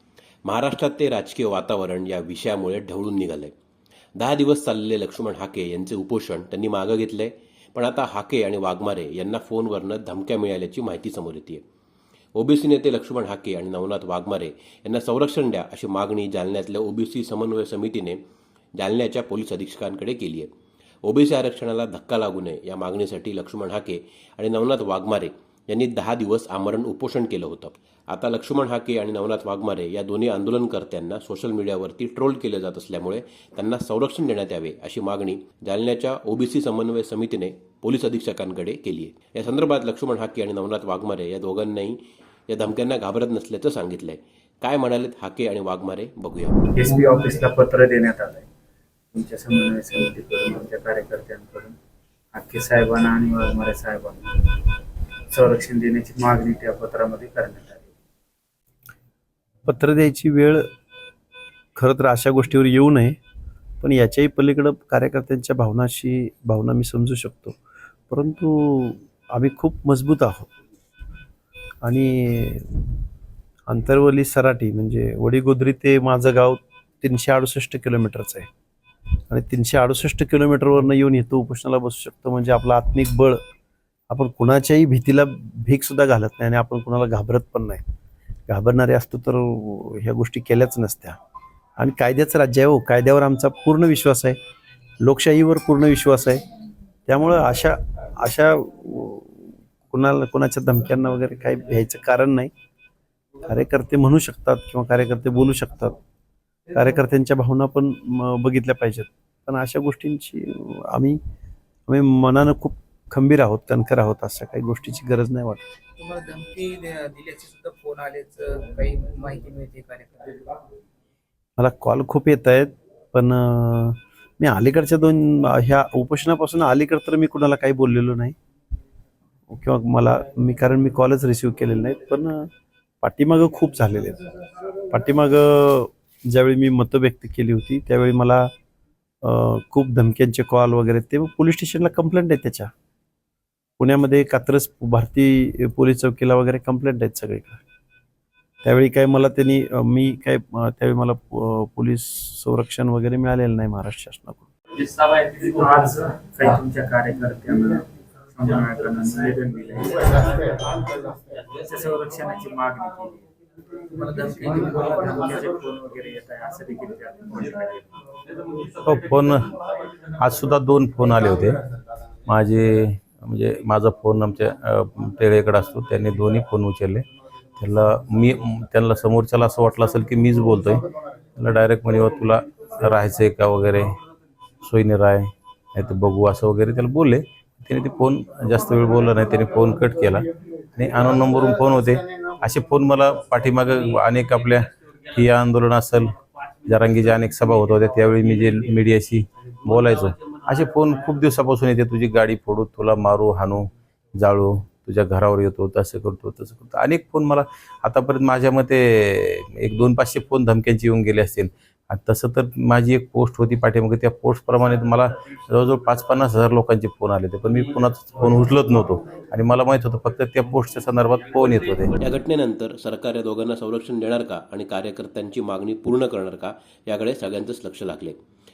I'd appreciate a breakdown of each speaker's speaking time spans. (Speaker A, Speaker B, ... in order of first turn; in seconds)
Speaker A: 0.4-3.5, 4.2-11.6, 12.3-18.2, 18.8-20.5, 21.0-46.6, 222.0-228.2
Speaker B: 46.7-48.5, 49.1-51.8, 52.3-54.8, 55.3-57.9, 154.8-163.2, 164.2-167.9
Speaker C: 59.6-60.6, 61.8-63.2, 63.8-67.5, 68.1-70.5, 71.8-72.8, 73.7-78.5, 79.3-83.4, 84.1-87.8, 88.5-91.2, 91.8-94.4, 95.0-96.4, 97.1-102.5, 103.4-106.0, 106.7-111.2, 111.9-115.6, 121.6-128.3, 129.5-132.5, 133.0-134.3, 134.9-138.5, 139.2-142.7, 143.8-147.6, 148.6-154.5
Speaker D: 116.0-120.3, 164.0-165.2
Speaker E: 168.8-169.6, 170.2-171.6, 172.3-177.1, 177.6-184.0, 184.6-221.9